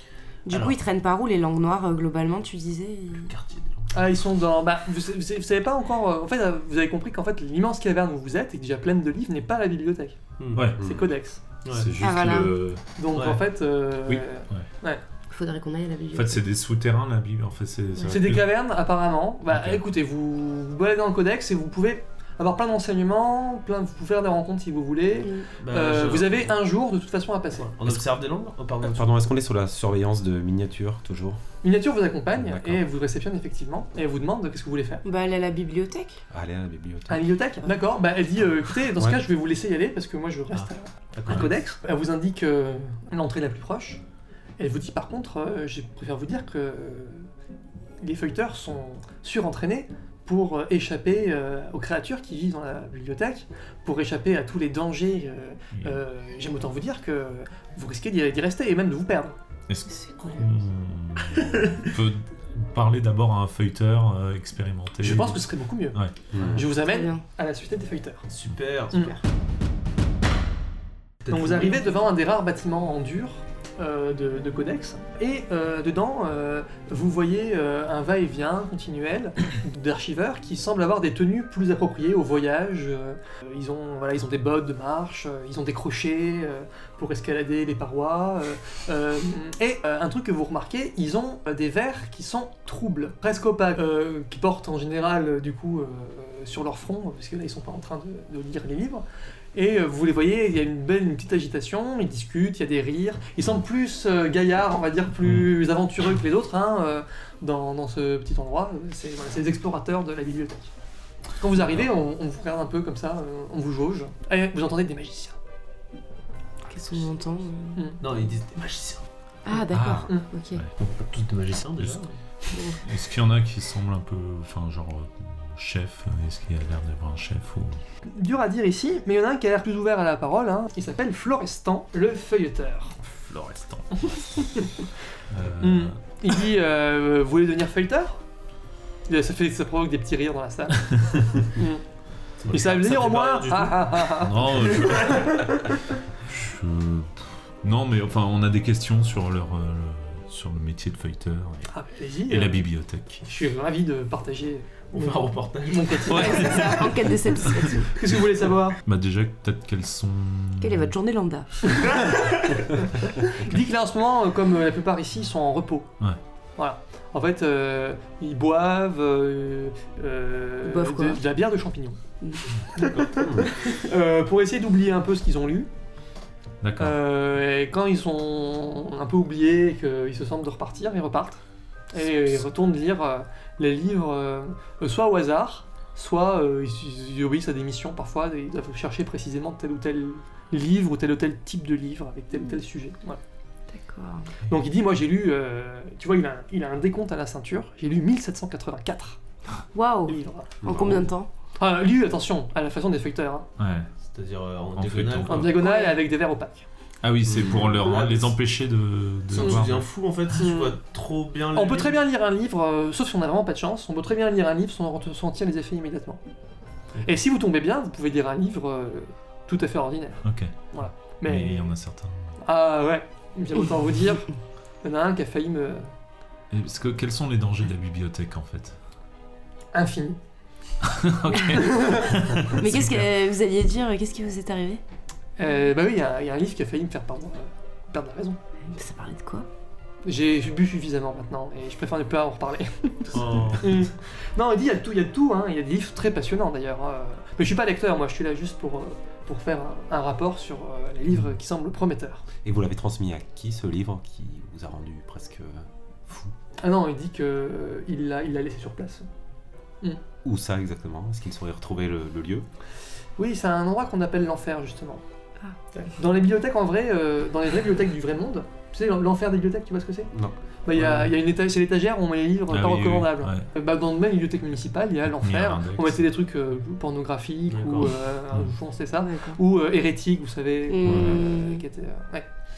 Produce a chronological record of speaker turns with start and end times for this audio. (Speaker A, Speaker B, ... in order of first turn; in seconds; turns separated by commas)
Speaker A: 0.4-3.3, Speaker B: 0.5-0.8, Speaker B: 3.2-4.0, Speaker C: 3.9-10.2, Speaker B: 10.4-10.8, Speaker D: 10.5-10.8, Speaker C: 10.8-11.4, Speaker E: 10.8-11.1, Speaker B: 11.6-11.9, Speaker D: 11.7-12.8, Speaker A: 12.0-12.6, Speaker C: 13.0-15.0, Speaker B: 13.1-13.4, Speaker D: 14.1-14.7, Speaker A: 15.3-16.4, Speaker D: 16.1-18.5, Speaker C: 18.1-27.7, Speaker D: 19.5-19.8, Speaker B: 25.6-26.5, Speaker B: 27.5-29.1, Speaker E: 28.8-31.4, Speaker C: 31.6-35.0, Speaker E: 32.4-32.8, Speaker A: 35.0-36.2, Speaker E: 36.3-37.2, Speaker C: 37.1-44.0, Speaker B: 40.5-41.6, Speaker C: 44.6-47.3, Speaker C: 48.0-59.4, Speaker D: 59.7-65.4, Speaker A: 59.9-60.5, Speaker C: 65.0-66.0, Speaker E: 66.3-66.6, Speaker B: 66.3-66.7, Speaker C: 66.5-68.3, Speaker A: 66.8-67.2, Speaker B: 68.3-69.1, Speaker C: 68.9-69.2, Speaker B: 71.2-72.0, Speaker C: 71.3-110.7, Speaker C: 111.4-115.4, Speaker A: 116.7-117.9, Speaker B: 118.0-119.0, Speaker A: 119.5-120.6, Speaker D: 119.7-120.7, Speaker B: 120.8-122.1, Speaker A: 122.5-122.8, Speaker D: 122.8-127.8, Speaker C: 128.1-133.0, Speaker D: 133.0-134.7, Speaker C: 134.6-134.8, Speaker D: 135.3-136.0, Speaker C: 135.6-138.2, Speaker C: 139.1-141.8, Speaker B: 142.4-145.4, Speaker C: 142.5-145.1, Speaker D: 144.2-145.5, Speaker D: 146.2-151.7, Speaker C: 151.7-152.6, Speaker D: 152.3-153.2, Speaker C: 153.2-156.7, Speaker B: 154.9-156.6, Speaker D: 156.1-157.8, Speaker A: 156.1-157.9, Speaker C: 157.8-158.8, Speaker D: 158.8-160.9, Speaker A: 160.6-161.7, Speaker C: 161.7-165.9, Speaker C: 166.6-172.0, Speaker A: 170.7-171.2, Speaker C: 172.8-175.7, Speaker E: 173.2-173.4, Speaker D: 176.6-177.0, Speaker C: 176.8-181.4, Speaker C: 181.9-193.2, Speaker A: 193.7-194.3, Speaker C: 194.5-199.2, Speaker A: 199.7-201.3, Speaker C: 200.1-200.6, Speaker E: 200.6-201.1, Speaker C: 201.6-203.4, Speaker D: 203.6-203.9, Speaker B: 204.0-205.6, Speaker D: 204.8-205.6, Speaker C: 205.2-206.7, Speaker A: 205.5-206.0, Speaker D: 207.0-209.9, Speaker B: 207.3-208.3, Speaker B: 209.3-212.0, Speaker C: 209.3-209.6, Speaker C: 210.4-210.8, Speaker C: 211.5-216.2, Speaker C: 217.0-221.7, Speaker D: 220.2-222.4, Speaker C: 222.4-225.9, Speaker D: 226.5-228.8, Speaker C: 229.7-230.2, Speaker D: 230.8-233.1, Speaker C: 231.6-232.0, Speaker A: 232.6-234.8, Speaker C: 235.4-238.4, Speaker A: 238.7-239.5, Speaker C: 240.0-252.2, Speaker B: 243.1-243.9, Speaker E: 252.4-256.3, Speaker C: 256.6-259.1, Speaker E: 260.2-262.4, Speaker C: 263.2-265.0, Speaker C: 265.8-270.1, Speaker C: 270.6-282.3, Speaker B: 270.8-271.1, Speaker D: 272.5-273.4, Speaker D: 275.2-276.0, Speaker B: 277.5-277.9, Speaker A: 279.0-279.4, Speaker A: 280.7-281.6, Speaker D: 280.9-281.2